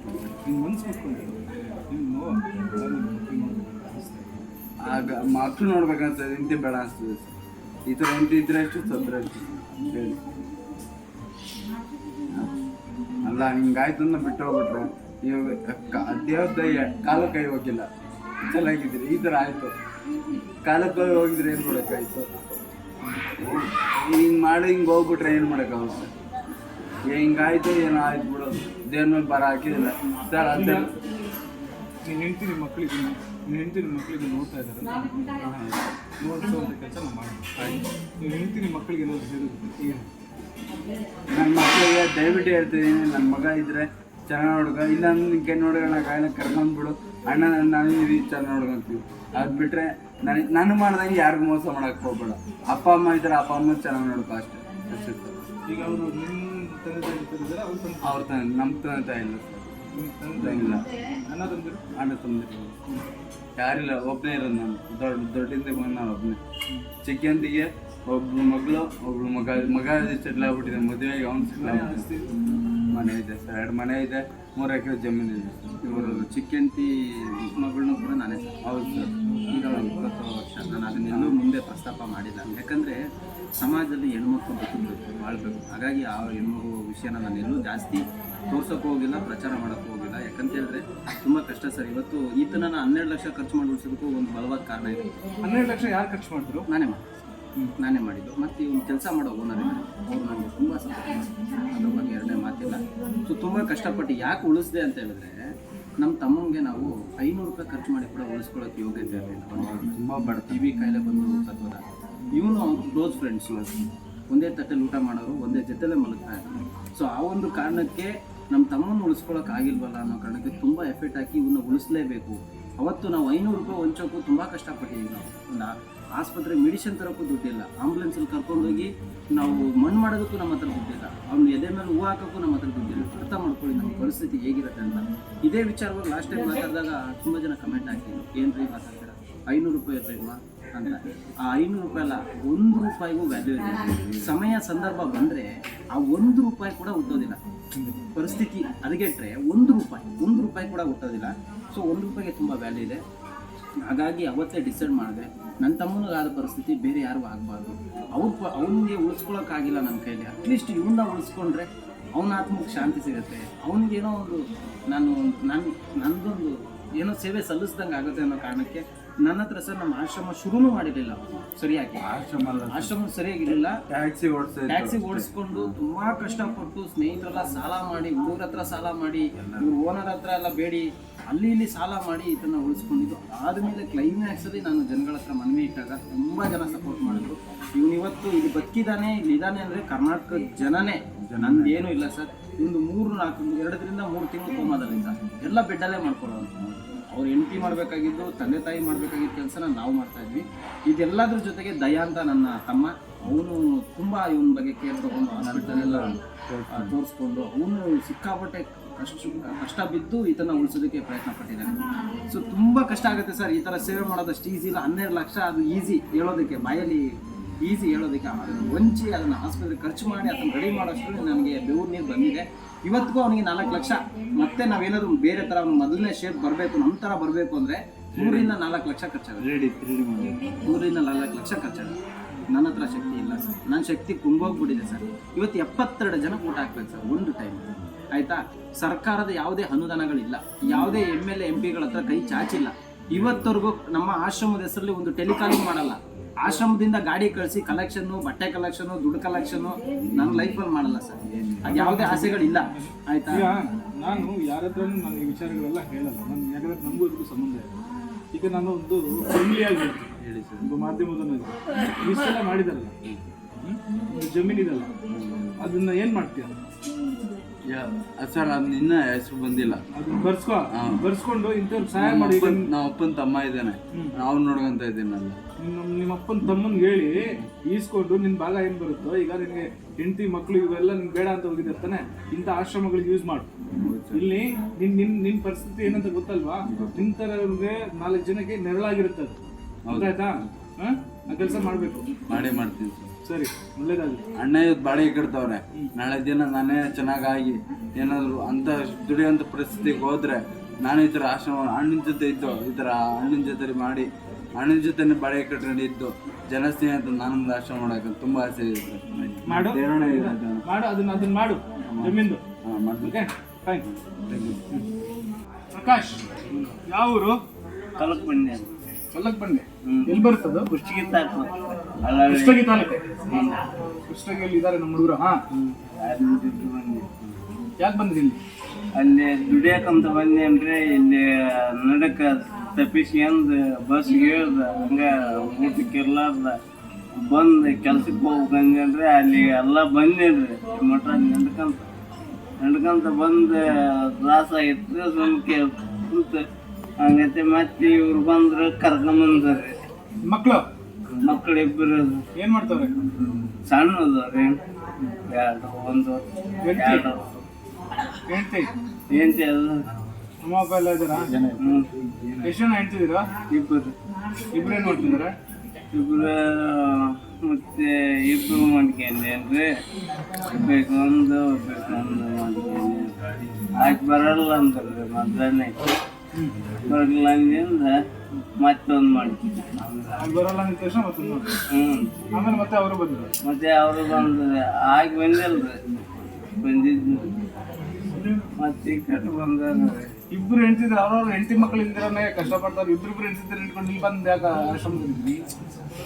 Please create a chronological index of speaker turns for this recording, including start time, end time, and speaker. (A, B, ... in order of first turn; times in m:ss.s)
0:00.4-0:04.4 A
0:04.8-0:07.3 B
0:07.9-0:10.2 B
0:13.2-0:17.9 B
0:18.5-0:19.7 B
0:20.6-0:22.3 B
0:23.3-0:26.1 B
0:27.1-0:30.9 B
0:30.5-0:30.9 A
0:32.0-0:35.2 A
0:35.4-0:35.8 B
0:36.2-0:40.1 A
0:41.3-0:55.4 B
0:55.7-0:58.3 A
0:58.0-1:00.8 B
1:00.0-1:01.8 A
1:02.0-1:02.8 B
1:03.6-1:06.4 B
1:07.0-1:12.1 B
1:11.6-1:12.3 A
1:12.9-1:16.3 B
1:15.8-1:18.5 C
1:18.6-1:20.0 B
1:19.3-1:19.6 A
1:19.5-1:23.0 C
1:21.0-1:21.4 B
1:23.6-1:35.0 C
1:35.4-1:36.7 A
1:36.7-1:37.1 C
1:37.8-1:45.4 C
1:46.0-1:50.0 C
1:49.7-1:50.7 B
1:50.5-2:27.4 C
2:28.2-2:33.0 C
2:33.8-2:52.1 C
2:52.0-2:53.0 B
2:52.6-2:53.8 C
2:53.9-2:55.8 B
2:54.7-3:26.2 C
2:59.4-2:59.7 B
3:11.3-3:11.9 B
3:25.4-3:27.0 B
3:26.7-3:37.0 C
3:37.6-3:49.5 C
3:48.2-3:48.6 B
3:49.4-3:50.4 B
3:50.6-3:52.0 C
3:52.5-4:13.5 C
4:03.1-4:03.5 B
4:10.1-4:10.5 B
4:11.3-4:12.2 B
4:11.6-4:17.7 A
4:18.3-4:22.9 A
4:20.2-4:20.7 B
4:23.6-4:24.9 A
4:25.1-4:25.5 B
4:25.6-4:26.5 A
4:27.7-4:29.8 B
4:30.0-4:32.7 A
4:30.8-4:31.1 B
4:32.0-4:35.4 B
4:35.6-4:43.5 A
4:43.7-4:44.3 B
4:44.1-4:49.4 A
4:46.7-4:47.1 B
4:49.9-4:50.4 B
4:49.9-4:52.0 A
4:52.3-4:53.1 B
4:53.2-4:54.2 A
4:54.4-5:10.6 B
5:09.4-5:12.4 A
5:11.9-5:13.2 B
5:13.0-5:13.8 A
5:13.8-5:14.8 B
5:15.7-5:16.2 A
5:16.5-5:16.8 D
5:16.9-5:17.4 A
5:18.0-5:18.7 D
5:19.1-5:20.7 A
5:19.8-5:21.5 D
5:22.0-5:22.7 D
5:22.2-5:23.3 A
5:23.3-5:23.6 B
5:24.1-5:25.4 A
5:25.5-5:27.3 D
5:27.8-5:28.4 A
5:29.0-5:36.6 D
5:37.2-5:41.9 D
5:42.6-5:46.5 D
5:47.0-5:49.7 D
5:50.2-5:50.7 A
5:51.2-5:52.2 D
5:52.4-5:53.0 A
5:53.7-5:54.6 D
5:55.3-5:56.2 D
5:56.6-5:57.1 A
5:56.7-5:57.3 D
5:58.3-5:58.7 A
5:59.1-5:59.9 D
6:00.4-6:01.3 A
6:01.6-6:01.9 D
6:02.4-6:03.3 A
6:03.5-6:03.9 D
6:04.5-6:05.4 A
6:05.9-6:09.7 D
6:10.5-6:13.1 D
6:13.8-6:15.8 D
6:16.9-6:18.0 D
6:18.6-6:19.4 D
6:20.2-6:21.5 A
6:21.7-6:22.1 D
6:22.3-6:23.3 A
6:23.4-6:25.8 D
6:26.6-6:27.4 D
6:28.1-6:28.5 A
6:28.6-6:30.1 D
6:30.3-6:35.5 A